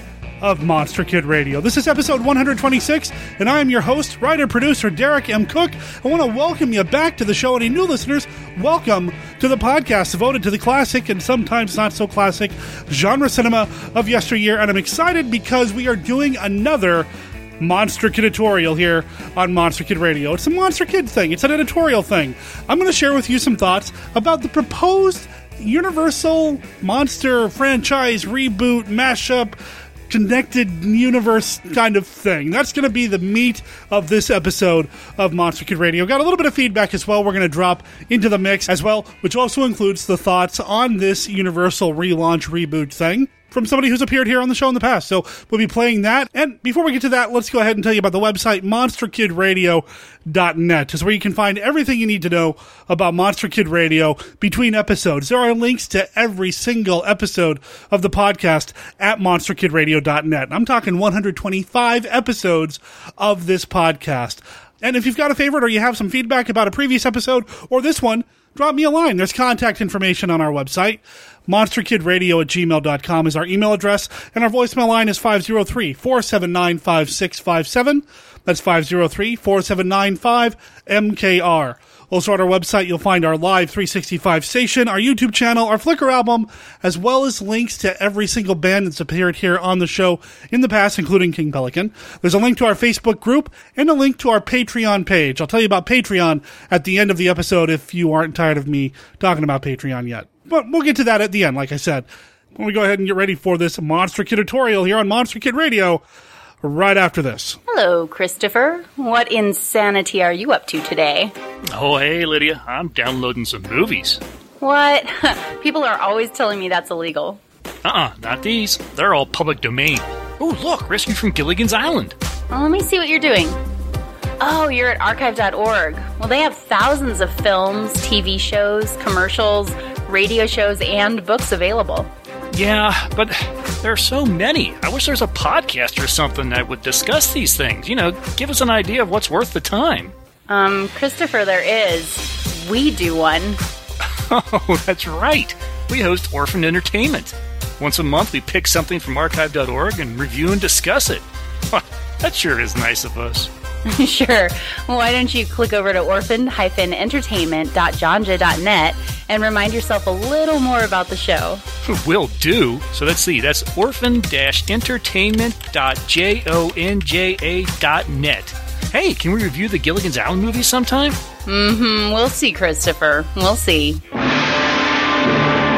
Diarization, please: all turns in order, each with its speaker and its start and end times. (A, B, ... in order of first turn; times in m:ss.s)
0:00.4-0:17.1 A
0:17.6-0:29.6 A
0:30.1-1:46.0 A
1:46.6-1:47.6 A
1:47.7-1:51.3 B
1:51.7-1:54.2 C
1:54.6-1:57.4 B
1:57.8-2:02.2 C
2:02.5-2:03.6 B
2:04.4-2:12.1 B
2:12.5-2:20.1 C
2:20.5-2:23.6 B
2:24.2-2:33.5 C
2:33.9-2:41.6 B
2:41.8-2:51.2 C
2:51.5-2:54.0 B